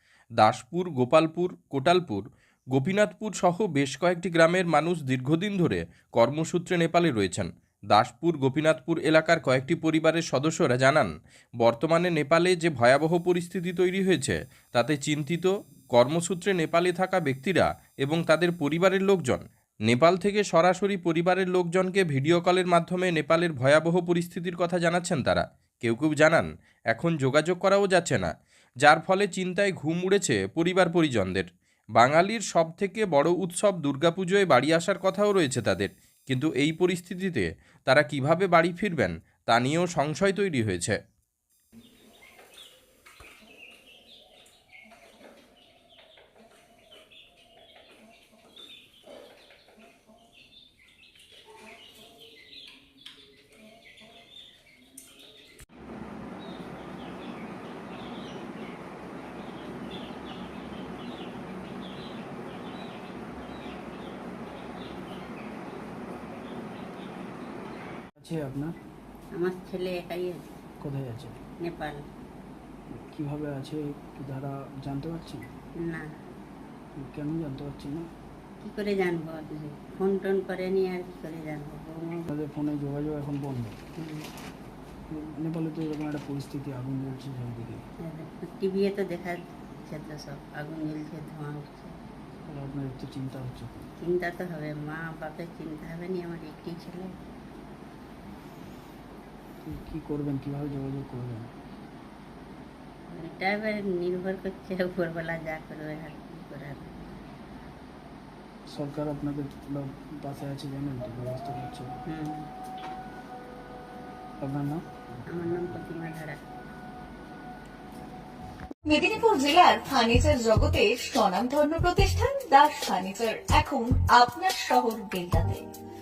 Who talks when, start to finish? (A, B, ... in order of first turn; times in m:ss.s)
0:00.4-0:02.2 A
0:02.7-0:41.0 A
1:08.2-1:08.8 B
1:09.3-1:10.4 C
1:10.8-1:11.4 B
1:11.6-1:12.0 C
1:12.9-1:15.5 B
1:15.8-1:16.1 C
1:17.0-1:18.1 B
1:18.6-1:22.3 C
1:22.3-1:23.8 B
1:24.0-1:24.3 C
1:25.1-1:27.8 B
1:28.0-1:31.9 C
1:32.5-1:33.9 B
1:34.0-1:37.1 C
1:39.6-1:41.5 B
1:43.1-1:47.0 C
1:48.7-1:51.9 B
1:52.1-1:52.5 C
1:54.4-1:55.6 B
1:55.3-1:56.4 C
1:58.9-2:05.6 D